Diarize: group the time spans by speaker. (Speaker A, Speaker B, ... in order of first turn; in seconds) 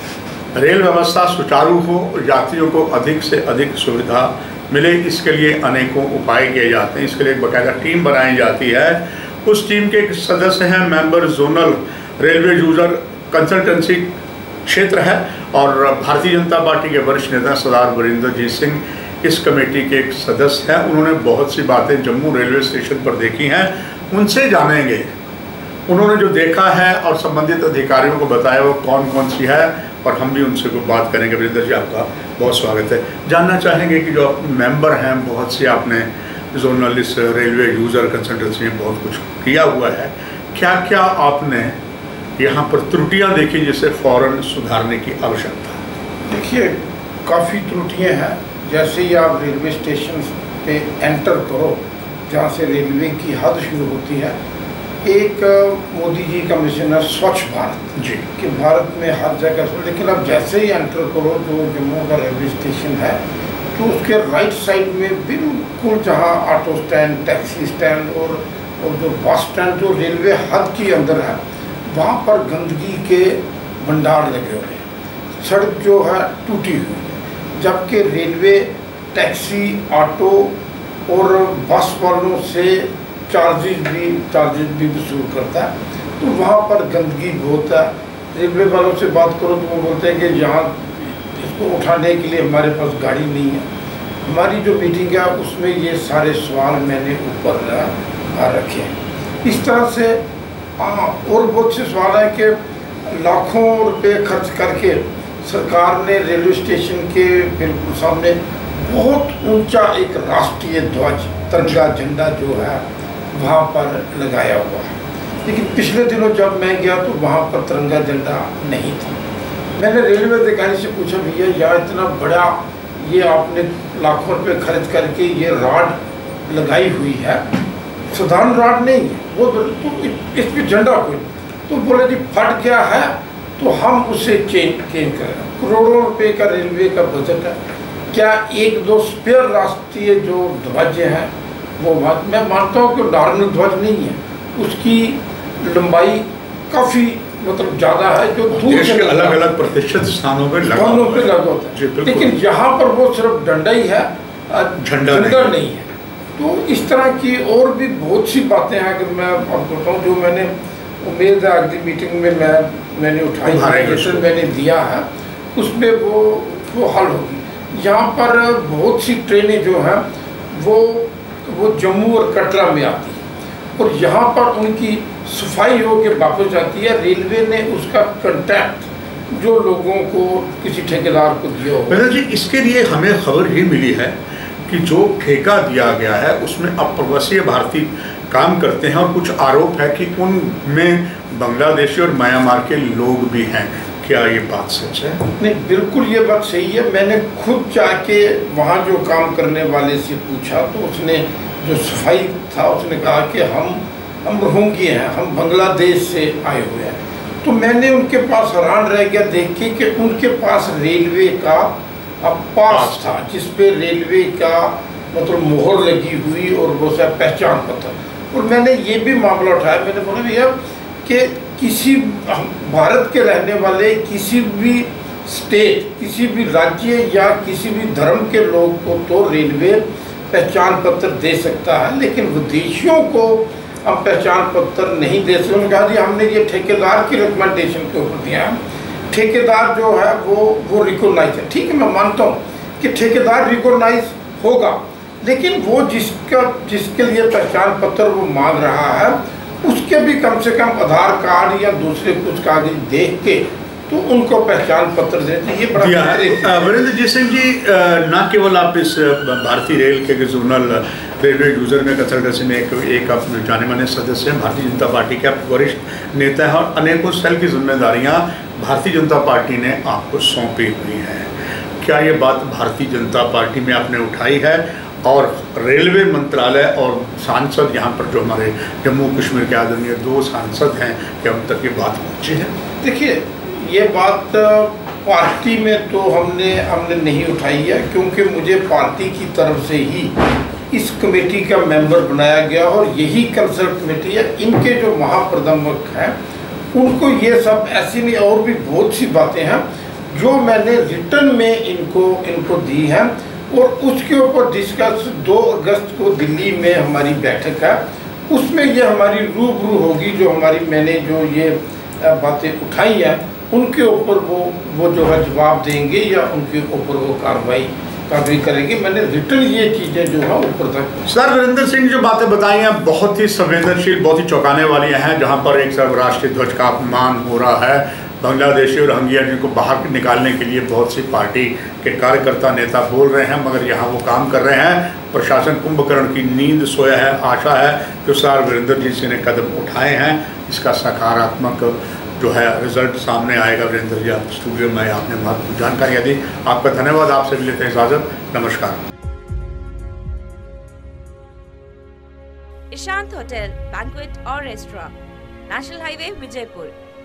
Speaker A: 0.5-14.1, 14.7-25.1, 25.9-41.8, 42.4-45.8, 58.0-58.2, 148.5-152.3, 154.8-155.5, 163.4-164.2, 181.9-195.2, 212.7-213.2, 255.8-282.5, 321.1-348.8
Speaker B: 46.2-54.3, 55.0-63.2, 63.7-74.8, 75.4-80.5, 81.1-93.7, 94.2-100.2, 100.8-119.2, 119.8-127.4, 128.1-137.6, 138.1-149.4, 150.7-160.5, 161.0-173.2, 173.8-182.0, 195.4-238.6, 239.1-256.8, 282.8-290.1, 290.7-296.1, 296.7-321.1
Speaker C: 352.7-354.9, 355.5-356.7